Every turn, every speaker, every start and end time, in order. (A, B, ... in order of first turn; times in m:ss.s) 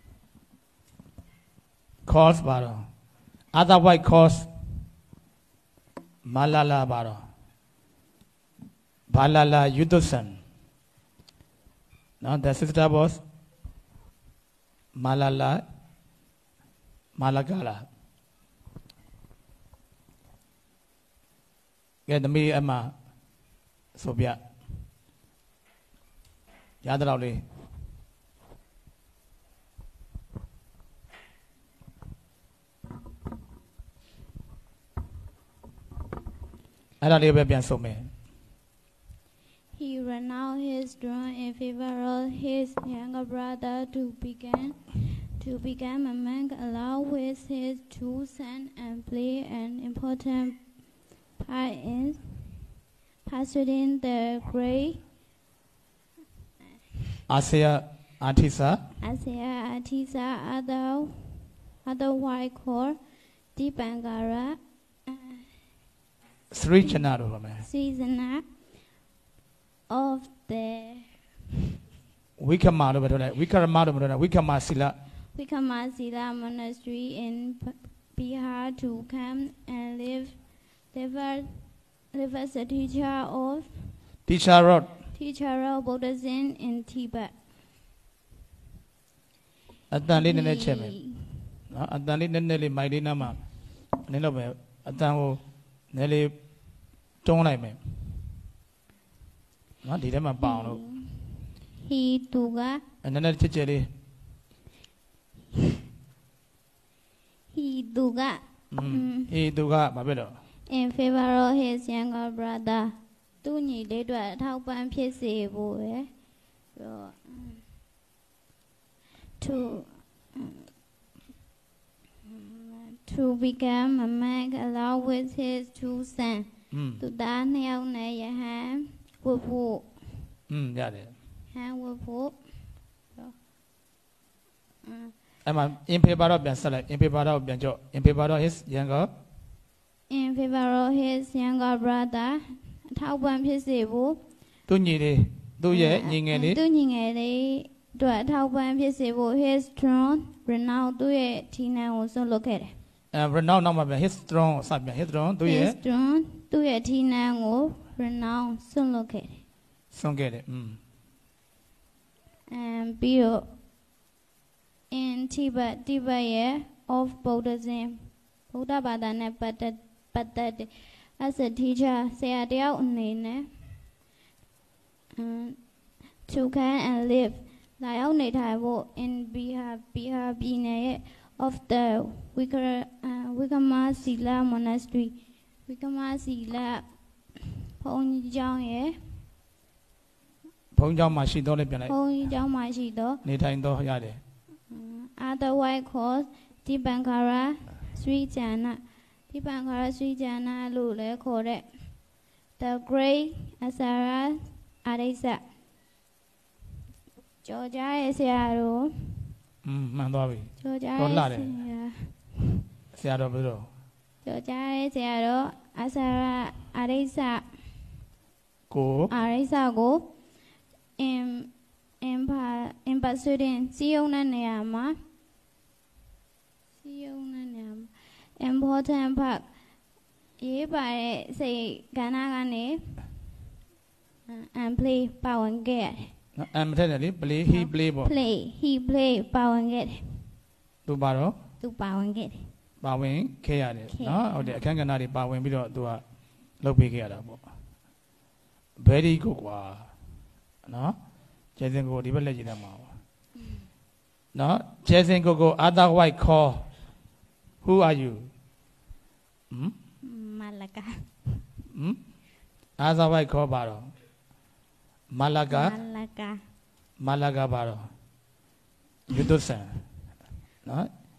0:02.0-0:02.9 A
0:03.5-0:04.5 A
0:06.2-0:07.2 A
0:09.1-0:10.4 A
0:12.2-0:13.2 A
0:15.0-0:15.6 A
0:17.2-0:17.8 A
0:22.1-0:22.9 A
0:23.9-0:24.4 A
0:26.8-0:27.4 A
0:37.0-0:38.1 A
0:39.7-0:50.7 B
0:51.4-0:52.4 B
0:53.2-0:55.0 B
0:57.3-0:58.8 A
0:59.0-1:03.0 B
1:03.6-1:05.4 B
1:06.5-1:07.6 A
1:07.6-1:08.4 B
1:09.9-1:11.1 B
1:12.4-1:15.0 A
1:15.3-1:20.4 B
1:20.9-1:21.5 B
1:22.1-1:23.9 B
1:24.2-1:24.9 A
1:25.1-1:27.3 B
1:29.9-1:31.0 A
1:30.2-1:31.4 B
1:31.7-1:33.4 A
1:34.1-1:36.3 A
1:37.2-1:37.8 A
1:39.8-1:40.8 A
1:40.4-1:42.8 B
1:43.0-1:43.9 A
1:47.5-1:49.3 B
1:48.7-1:50.3 A
1:50.7-1:56.1 B
1:56.7-1:57.6 B
1:59.4-2:00.6 B
2:02.2-2:06.5 B
2:06.7-2:07.0 A
2:07.0-2:10.0 B
2:10.5-2:11.1 A
2:11.5-2:12.4 B
2:14.8-2:15.1 B
2:15.4-2:19.1 A
2:20.1-2:24.2 B
2:24.7-2:26.6 A
2:25.7-2:32.7 B
2:33.1-2:35.8 A
2:35.4-2:39.4 B
2:39.9-2:40.8 A
2:42.5-2:43.5 B
2:44.9-2:53.5 B
2:55.2-2:55.6 B
2:56.2-3:06.8 B
3:07.4-3:09.0 B
3:10.7-3:11.9 A
3:11.8-3:13.2 B
3:13.2-3:14.2 A
3:14.7-3:21.7 B
3:22.6-3:25.4 B
3:27.4-3:29.3 B
3:29.6-3:31.5 A
3:30.6-3:32.2 B
3:32.9-3:33.7 A
3:34.2-3:37.5 B
3:38.7-3:39.1 A
3:39.1-3:40.1 B
3:41.0-3:41.5 B
3:42.0-3:45.0 B
3:46.8-3:49.5 B
3:50.4-3:53.0 B
3:54.3-3:56.1 B
3:56.4-3:58.1 A
3:57.5-4:00.2 B
4:00.8-4:01.3 A
4:01.6-4:02.5 B
4:02.8-4:06.0 A
4:03.9-4:04.6 B
4:06.6-4:07.4 A
4:08.8-4:09.9 A
4:10.6-4:11.0 A
4:11.6-4:12.9 A
4:14.3-4:16.7 A
4:17.6-4:18.3 A
4:20.0-4:21.4 B
4:21.7-4:22.0 A
4:22.8-4:23.9 A
4:25.1-4:25.7 A
4:25.5-4:26.4 B
4:27.0-4:27.8 A
4:29.1-4:29.8 A
4:30.6-4:30.9 A